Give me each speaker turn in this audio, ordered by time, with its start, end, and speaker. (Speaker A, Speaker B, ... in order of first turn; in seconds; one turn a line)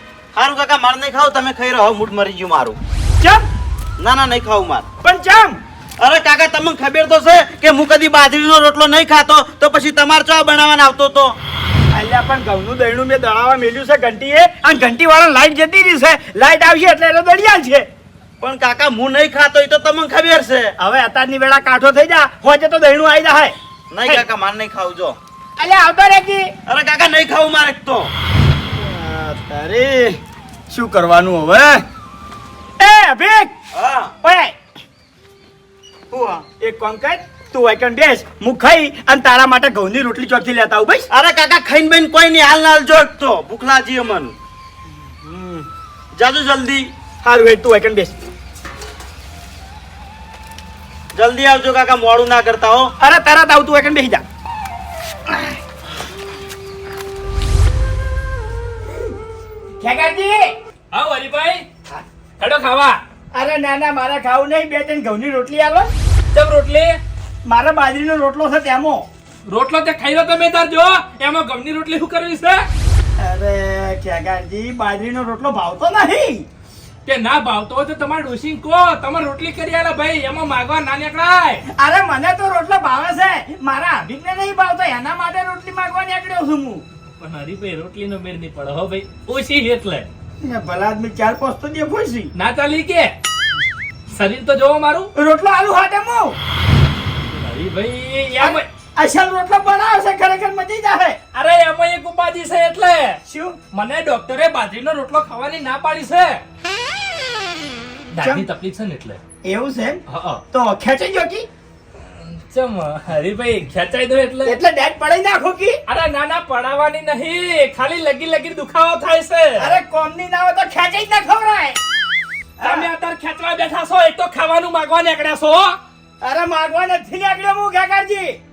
Speaker A: 0.3-2.8
Speaker B: 3.2-3.5
Speaker A: 4.0-4.8
Speaker B: 5.0-5.6
Speaker A: 6.0-11.3
Speaker B: 11.9-17.9
Speaker A: 18.4-20.7
Speaker B: 20.8-23.5
Speaker A: 23.9-25.2
Speaker B: 25.6-26.5
Speaker A: 26.7-28.1
Speaker A: 28.9-30.2
Speaker B: 30.7-31.8
Speaker B: 32.8-33.5
Speaker A: 33.7-34.1
Speaker B: 34.2-34.5
Speaker A: 36.1-36.4
Speaker B: 36.6-41.1
Speaker A: 41.1-44.3
Speaker A: 45.2-46.9
Speaker B: 47.2-48.2
Speaker A: 51.1-52.9
Speaker B: 53.0-54.2
Speaker B: 59.8-60.5
Speaker C: 60.9-61.6
Speaker C: 62.4-63.0
Speaker B: 63.3-65.9
Speaker C: 66.3-67.0
Speaker B: 67.5-69.0
Speaker C: 69.5-72.7
Speaker B: 73.2-76.5
Speaker C: 77.0-81.6
Speaker B: 81.8-86.8
Speaker C: 87.2-90.1
Speaker B: 90.4-92.3
Speaker C: 92.3-93.1
Speaker C: 94.1-95.1
Speaker B: 95.2-96.3
Speaker C: 97.3-98.7
Speaker B: 98.4-101.2
Speaker C: 101.3-103.2
Speaker B: 103.3-103.6
Speaker C: 103.7-106.4
Speaker C: 108.1-109.2
Speaker B: 109.4-110.0
Speaker C: 110.1-110.4
Speaker B: 110.5-111.5
Speaker C: 112.2-114.6
Speaker B: 114.4-115.8
Speaker C: 115.9-119.8
Speaker B: 119.6-121.8
Speaker B: 122.6-122.9
Speaker C: 122.6-125.8
Speaker B: 126.2-128.4